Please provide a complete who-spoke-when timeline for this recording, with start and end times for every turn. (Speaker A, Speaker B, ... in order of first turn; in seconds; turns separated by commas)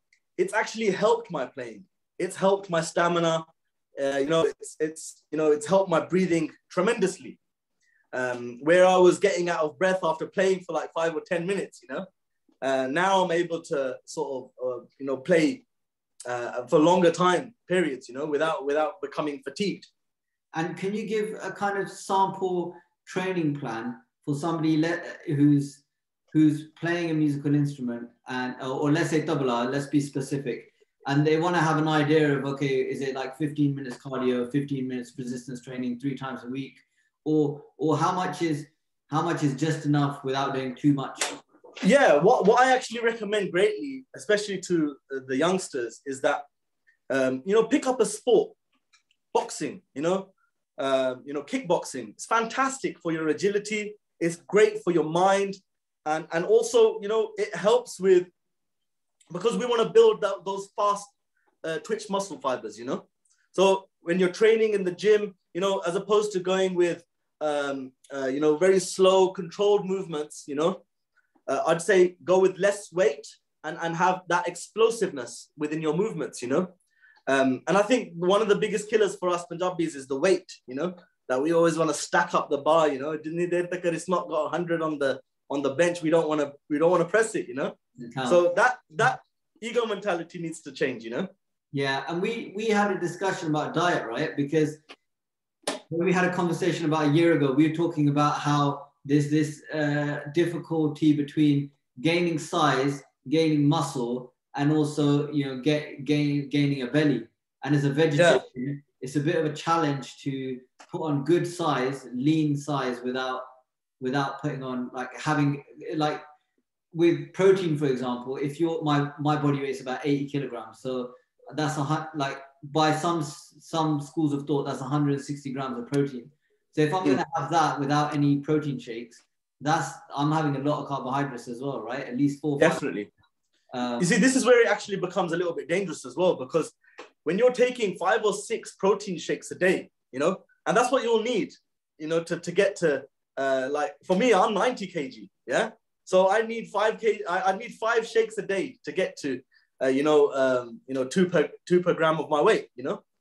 Speaker A: 0.4-3.5, Speaker A: 4.0-7.4, Speaker A: 8.1-12.1, Speaker A: 12.6-15.6, Speaker A: 16.3-19.9, Speaker B: 20.5-41.4, Speaker A: 41.8-46.4, Speaker A: 47.1-48.5, Speaker A: 49.3-58.3, Speaker A: 59.3-70.8, Speaker A: 71.5-76.7, Speaker A: 77.3-91.3, Speaker B: 88.0-88.4, Speaker B: 91.7-94.8, Speaker B: 95.9-113.4, Speaker A: 108.2-108.4, Speaker B: 114.0-116.2, Speaker B: 116.9-132.8, Speaker A: 132.6-133.1, Speaker B: 133.7-134.1, Speaker A: 134.0-153.0